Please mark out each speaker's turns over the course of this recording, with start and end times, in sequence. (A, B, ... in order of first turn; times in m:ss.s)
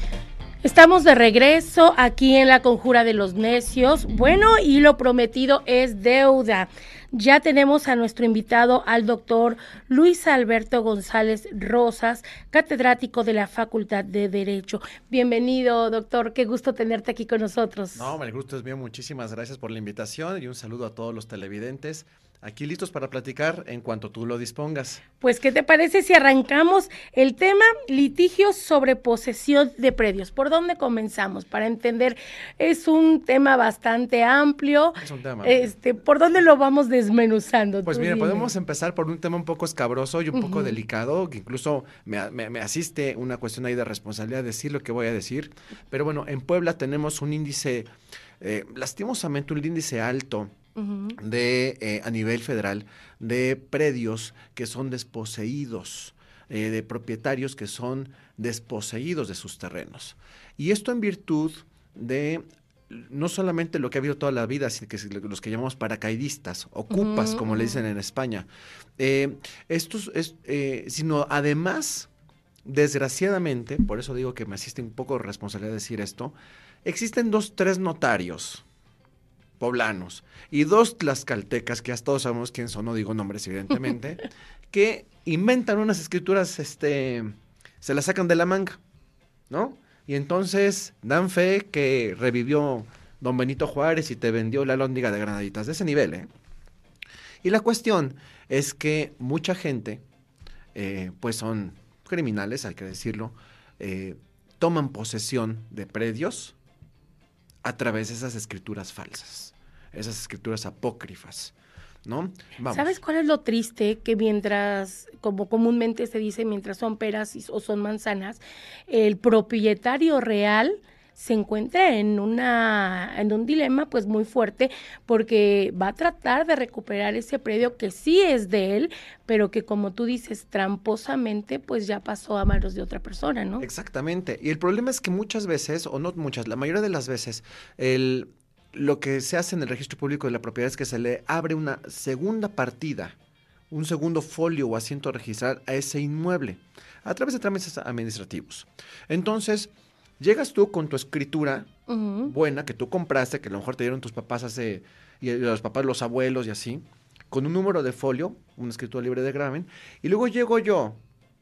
0:00.6-0:18.1 A
0:18.0-0:25.0 B
0:25.2-0:38.5 A
0:35.0-0:35.7 B
0:37.9-0:47.9 B
0:40.3-0:40.8 A
0:48.4-0:50.5 B
0:50.8-0:51.2 A
0:51.2-1:08.5 B
1:06.9-1:07.8 A
1:09.0-1:12.1 B
1:12.7-1:18.6 B
1:19.6-1:28.8 B
1:29.5-1:36.3 B
1:37.4-1:40.0 B
1:40.8-1:46.6 B
1:47.6-1:51.5 B
1:52.1-1:53.0 B
1:52.7-2:13.7 A
2:13.6-2:23.2 B
2:23.7-2:31.7 B
2:31.9-2:32.3 A
2:32.3-2:41.0 B